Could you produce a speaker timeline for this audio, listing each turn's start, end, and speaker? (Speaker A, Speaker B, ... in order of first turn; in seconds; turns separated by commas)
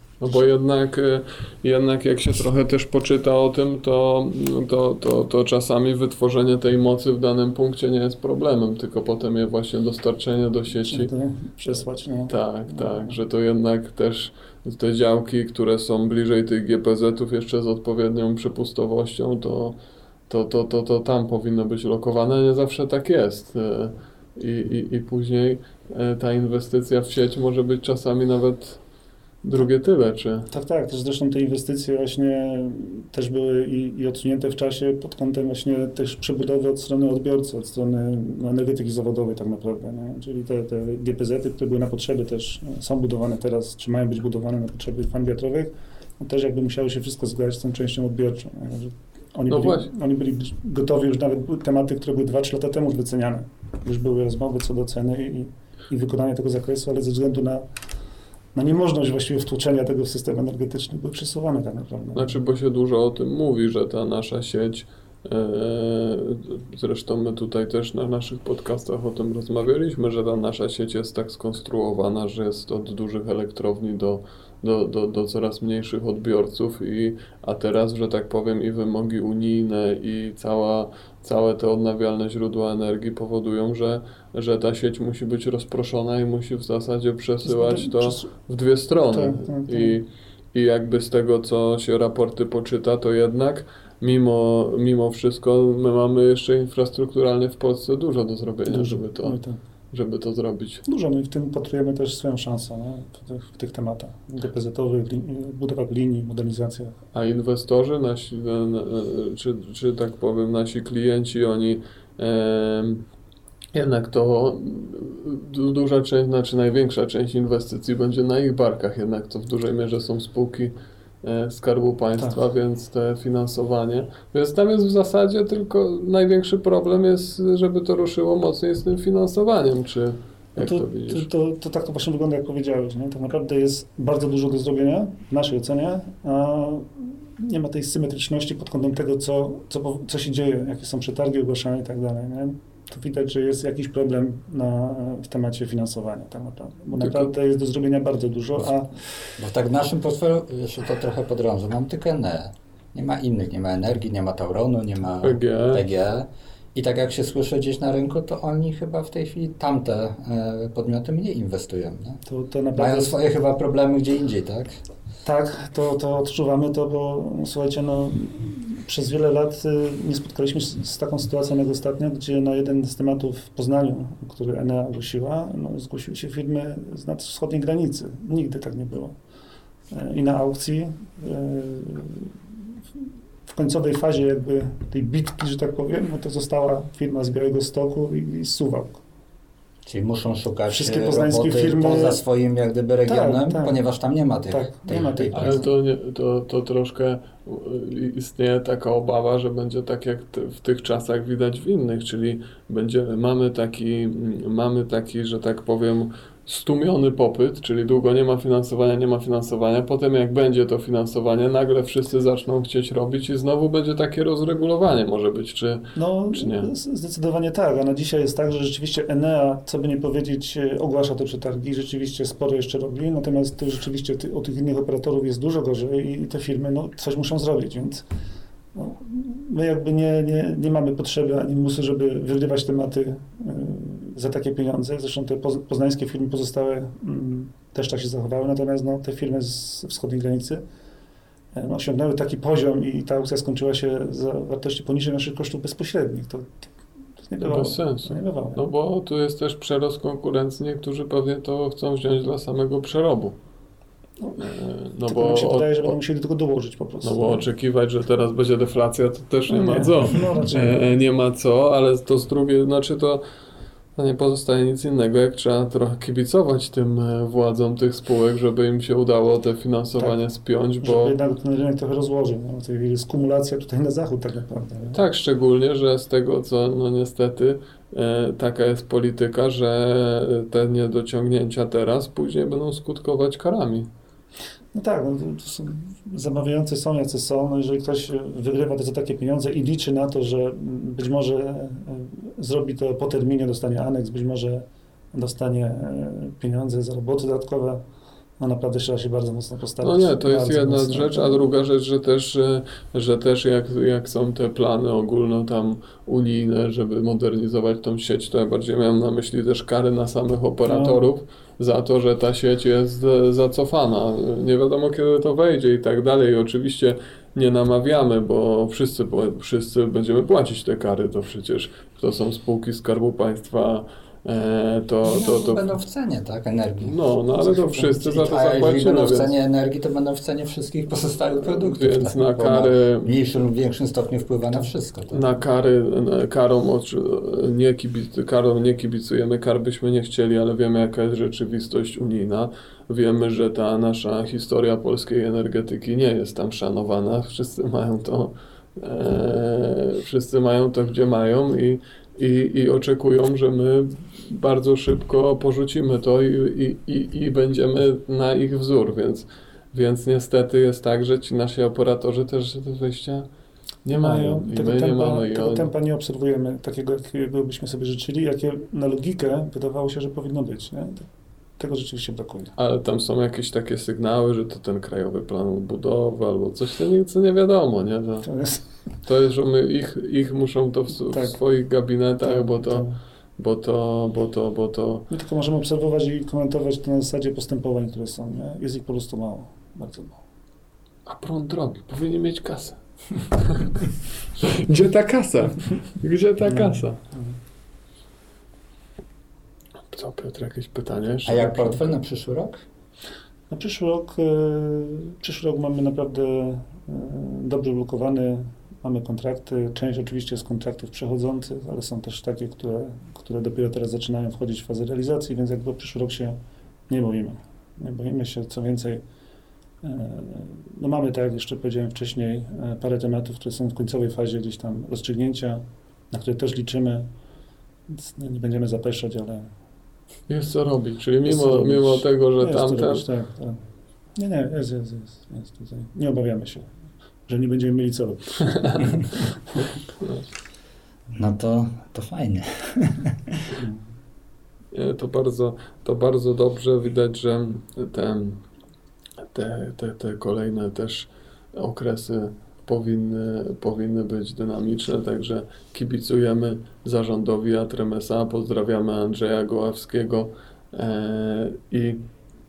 Speaker A: 0.2-11.1, Speaker B: 10.9-13.2, Speaker A: 11.7-19.8, Speaker A: 20.3-28.8, Speaker A: 29.4-30.5, Speaker B: 30.5-57.6, Speaker A: 49.5-49.9, Speaker B: 58.5-62.4, Speaker A: 62.1-99.4, Speaker B: 87.4-88.3, Speaker B: 89.1-89.9, Speaker B: 98.7-99.6, Speaker A: 99.9-100.8, Speaker B: 100.9-107.0, Speaker A: 107.1-113.0, Speaker A: 113.7-131.3, Speaker B: 130.6-149.2, Speaker A: 147.0-147.3, Speaker C: 149.4-162.2, Speaker A: 155.2-155.8, Speaker B: 162.3-163.2, Speaker C: 162.7-164.7, Speaker B: 165.2-179.1, Speaker B: 179.9-182.3, Speaker B: 183.5-189.0, Speaker C: 189.8-195.6, Speaker B: 190.7-192.2, Speaker B: 193.1-193.8, Speaker B: 194.5-195.6, Speaker A: 195.3-216.7, Speaker B: 215.9-228.1, Speaker B: 228.7-240.6, Speaker B: 241.5-246.6, Speaker B: 247.2-248.6, Speaker A: 247.4-253.3, Speaker B: 254.2-257.4, Speaker A: 254.4-255.9, Speaker A: 257.0-263.2, Speaker B: 259.5-260.9, Speaker A: 263.9-271.1, Speaker B: 270.8-275.0, Speaker A: 274.9-283.9, Speaker B: 284.7-297.8, Speaker B: 298.4-301.4, Speaker A: 299.8-325.7, Speaker B: 310.6-311.0, Speaker C: 325.0-335.3, Speaker A: 326.8-329.3, Speaker A: 331.4-333.1, Speaker A: 335.1-363.3, Speaker A: 363.8-365.7, Speaker B: 363.9-372.5, Speaker A: 372.6-378.3, Speaker B: 378.2-378.6, Speaker A: 379.0-382.9, Speaker B: 382.2-383.0, Speaker A: 383.4-385.1, Speaker B: 385.1-390.2, Speaker A: 391.1-392.8, Speaker A: 393.4-393.8, Speaker A: 394.4-397.0, Speaker B: 396.4-397.3, Speaker A: 399.9-401.8, Speaker C: 401.2-402.6, Speaker B: 403.5-416.4, Speaker B: 416.9-419.0, Speaker B: 419.8-427.1, Speaker B: 427.9-429.5, Speaker A: 430.3-433.1, Speaker B: 431.3-433.6, Speaker B: 434.1-436.7, Speaker B: 437.3-439.3, Speaker A: 438.6-439.0, Speaker A: 440.0-440.3, Speaker C: 441.1-443.4, Speaker A: 444.7-448.4, Speaker A: 449.3-462.0